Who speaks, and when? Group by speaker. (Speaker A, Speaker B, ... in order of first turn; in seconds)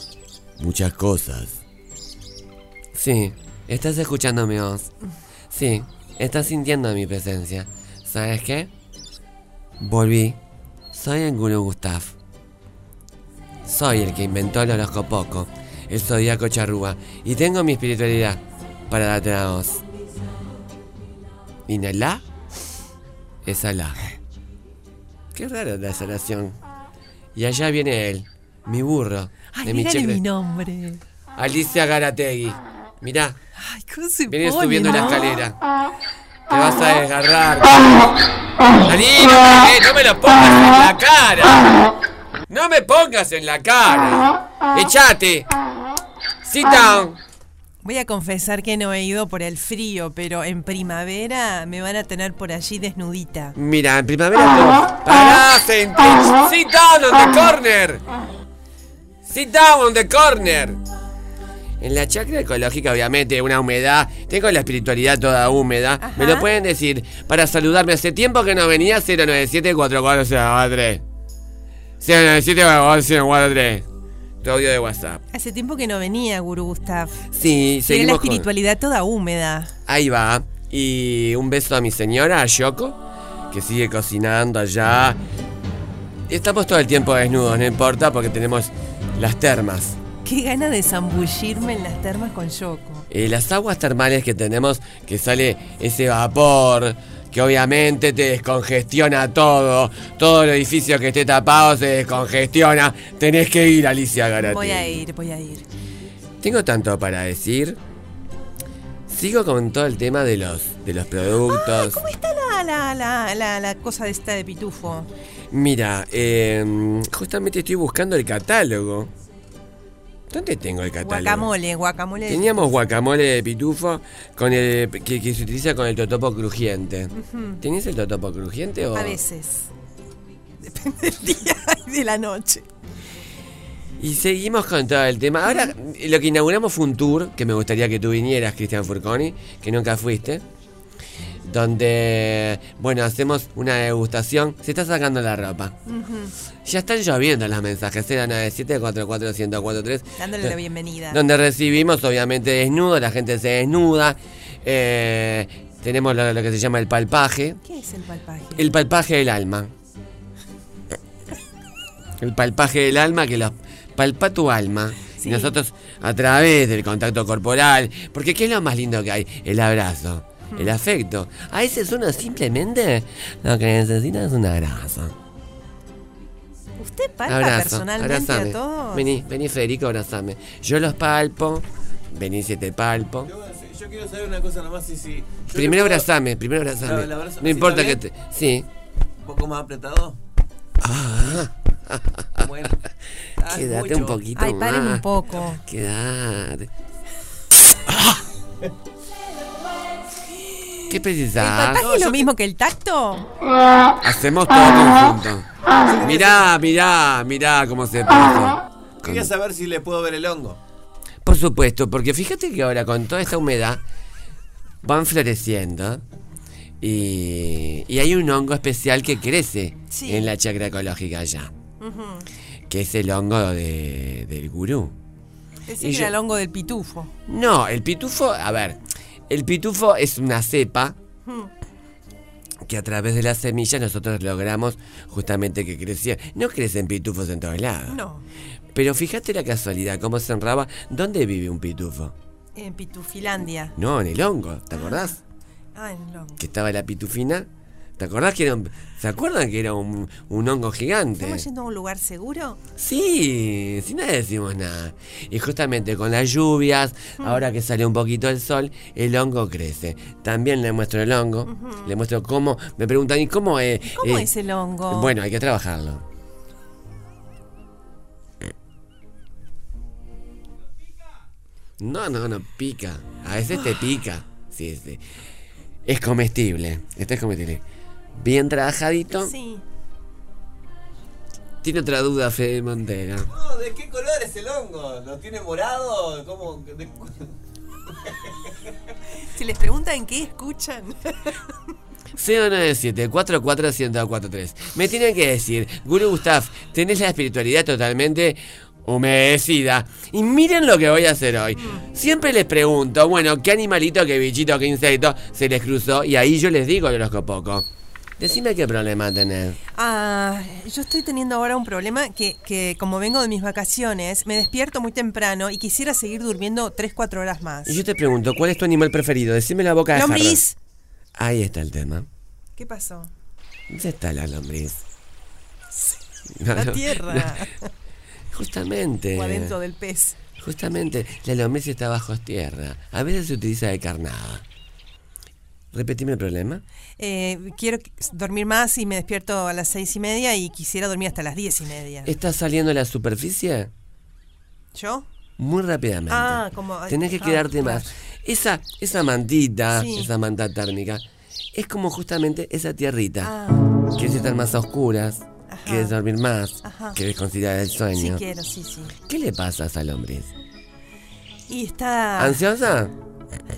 Speaker A: 0.6-1.6, 2.9-4.9, 5.5-8.7, 9.8-10.4, 10.9-12.1, 13.7-19.8, 21.7-22.2, 23.4-24.0, 25.3-26.6, 27.4-30.2, 31.4-33.4, 34.3-35.5, 36.5-38.0, 38.8-41.7, 42.5-45.5, 46.4-47.2, 53.5-58.0, 59.2-60.8, 61.8-71.0, 72.0-73.8, 74.4-75.2, 77.3-78.5, 79.9-83.0, 83.5-85.2, 86.3-90.0, 93.1-105.0, 106.4-107.8, 109.1-112.0, 115.5-119.1, 120.3-121.5, 122.3-129.2, 134.0-140.4, 141.4-145.8, 146.6-150.6, 151.1-157.6, 158.6-159.7, 162.2-175.1, 177.3-183.3, 185.5-188.7, 190.8-192.5, 193.4-195.1, 195.6-196.7, 200.9-201.8, 204.0-205.4, 206.0-209.3, 211.2-213.8, 214.8-216.0, 216.8-221.5, 222.7-224.9, 225.8-226.1, 227.3-228.8, 229.3-230.9, 232.6-238.0, 238.7-242.1, 243.8-245.2, 246.4-247.5, 248.0-251.4, 252.8-264.3, 264.9-266.0, 271.8-275.0, 275.9-277.6, 278.2-279.3, 281.6-283.3, 292.2-307.7, 308.2-309.6, 317.6-320.4, 321.2-322.1, 323.7-324.8, 326.4-327.3, 328.3-329.6, 330.4-334.4, 335.7-336.6, 342.1-343.7, 345.4-353.3, 353.9-358.2, 359.1-360.3, 362.2-362.9
Speaker B: 29.5-31.0, 33.6-35.3, 47.8-53.5, 66.0-66.5, 75.3-77.2, 77.9-79.7, 90.2-93.0, 104.4-105.6, 111.5-115.1, 121.0-122.5, 127.1-127.6, 128.9-129.7, 130.6-132.7, 135.5-135.7, 145.9-146.3, 150.2-151.2, 157.6-158.7, 165.1-165.6, 176.8-179.1, 194.3-195.6, 201.4-203.3, 219.9-220.3, 221.8-222.3, 225.7-227.1, 237.9-238.3, 242.6-243.7, 244.7-245.2, 245.7-246.4, 251.2-252.6, 261.4-261.9, 263.9-265.1, 279.2-279.6, 289.3-291.4, 301.6-301.8, 309.7-317.8, 319.9-320.6, 322.6-323.1, 326.5-327.7, 329.1-330.2, 337.0-342.1, 344.7-345.1, 346.1-347.9, 349.7-350.1, 353.2-353.6, 355.5-355.9, 356.6-357.0, 357.9-358.9, 361.5-362.4
Speaker C: 183.2-186.1, 186.8-188.0, 189.2-190.2, 192.4-192.7, 193.4-194.2, 201.8-202.3, 205.9-206.5, 209.0-210.6, 283.3-287.2